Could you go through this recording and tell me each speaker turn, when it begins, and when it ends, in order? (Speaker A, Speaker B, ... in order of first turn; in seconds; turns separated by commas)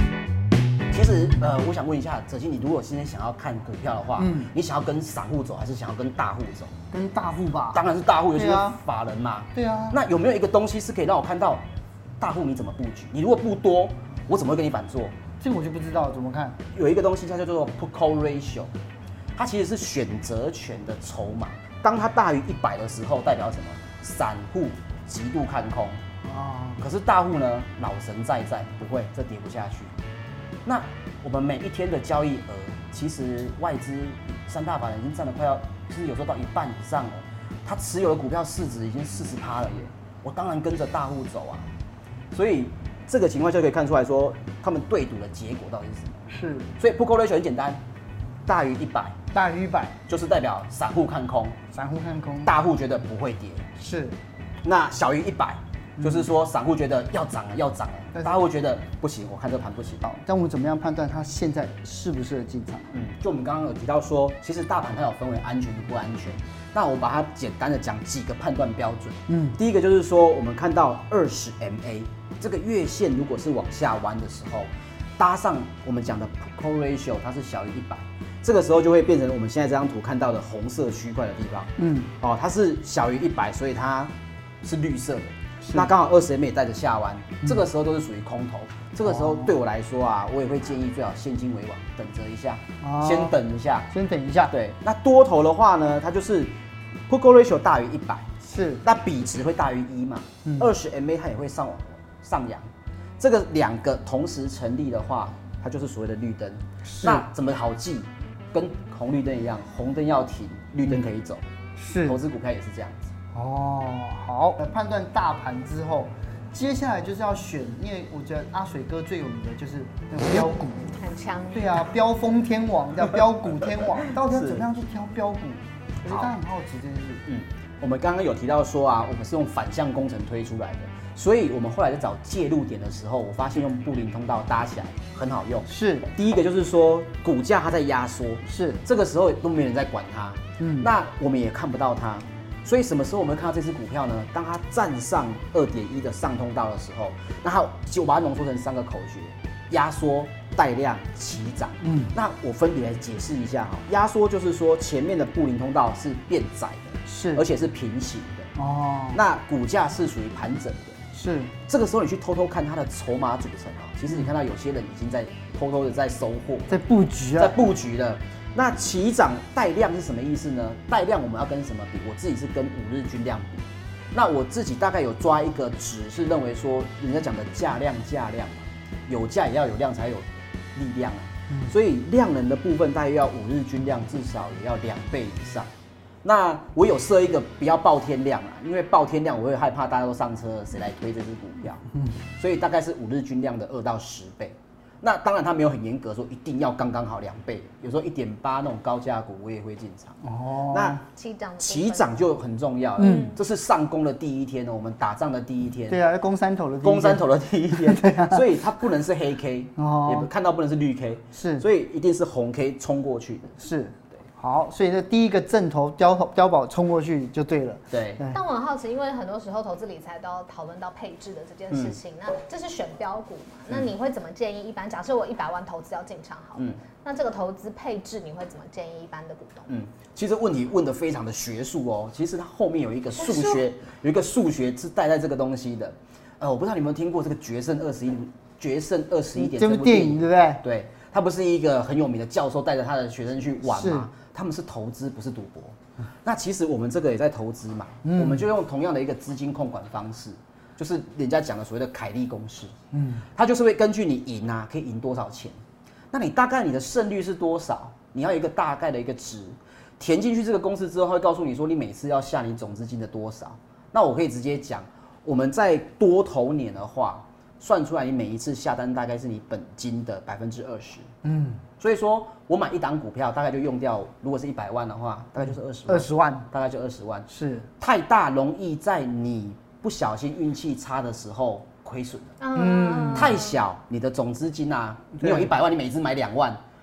Speaker A: 0.9-6.7, Speaker B: 4.2-4.5, Speaker B: 6.9-8.8, Speaker A: 7.7-11.7, Speaker B: 9.5-10.0, Speaker A: 12.2-15.1, Speaker B: 15.4-16.6, Speaker A: 16.7-18.7, Speaker A: 19.3-26.0, Speaker B: 26.2-26.8, Speaker A: 26.8-29.9, Speaker A: 30.6-41.7, Speaker A: 42.3-46.3, Speaker B: 46.3-46.7, Speaker A: 46.8-47.8, Speaker A: 48.5-49.2, Speaker B: 49.3-50.0, Speaker A: 50.1-51.6, Speaker B: 51.7-52.5, Speaker A: 52.4-53.6, Speaker B: 53.8-54.1, Speaker A: 54.6-60.0, Speaker B: 56.0-56.3, Speaker B: 58.1-58.4, Speaker B: 60.0-62.9, Speaker A: 62.9-93.9, Speaker B: 69.3-69.6, Speaker B: 81.8-82.1, Speaker B: 85.6-85.9, Speaker B: 89.0-89.5, Speaker B: 92.8-93.4, Speaker B: 93.9-94.5, Speaker A: 94.5-96.5, Speaker A: 97.1-98.3, Speaker B: 98.4-98.8, Speaker A: 98.8-111.4, Speaker B: 106.8-107.2, Speaker B: 111.8-112.2, Speaker A: 112.0-113.1, Speaker B: 113.3-121.0, Speaker C: 121.0-121.8, Speaker B: 121.5-127.2, Speaker A: 123.5-124.7, Speaker A: 126.0-126.3, Speaker A: 127.2-158.5, Speaker B: 135.7-136.1, Speaker B: 138.4-138.8, Speaker B: 140.6-140.9, Speaker B: 151.8-152.1, Speaker B: 157.1-157.4, Speaker B: 158.6-159.2, Speaker A: 159.1-161.0, Speaker B: 161.1-161.5, Speaker A: 161.7-166.7, Speaker B: 166.7-167.6, Speaker A: 167.4-185.7, Speaker A: 186.2-191.8, Speaker A: 192.4-200.2, Speaker B: 200.2-201.0, Speaker A: 200.7-201.0, Speaker C: 201.1-202.2, Speaker A: 201.6-206.0, Speaker C: 203.0-203.4, Speaker B: 203.0-203.3, Speaker B: 205.9-208.4, Speaker A: 206.8-213.5, Speaker B: 209.8-210.3, Speaker B: 211.3-211.6, Speaker B: 213.6-218.4, Speaker A: 217.9-218.2, Speaker C: 218.3-229.7, Speaker A: 221.7-222.0, Speaker A: 229.7-252.7, Speaker C: 233.1-233.6, Speaker B: 239.3-240.6, Speaker B: 243.7-244.1, Speaker B: 248.0-248.4, Speaker B: 252.9-253.2, Speaker A: 253.3-255.6, Speaker A: 256.1-271.1, Speaker B: 271.2-271.6, Speaker A: 271.8-277.3, Speaker B: 275.9-276.5, Speaker B: 277.3-277.7, Speaker A: 277.8-282.3, Speaker C: 282.4-283.6, Speaker B: 282.5-283.3, Speaker A: 283.1-286.6, Speaker B: 285.1-285.5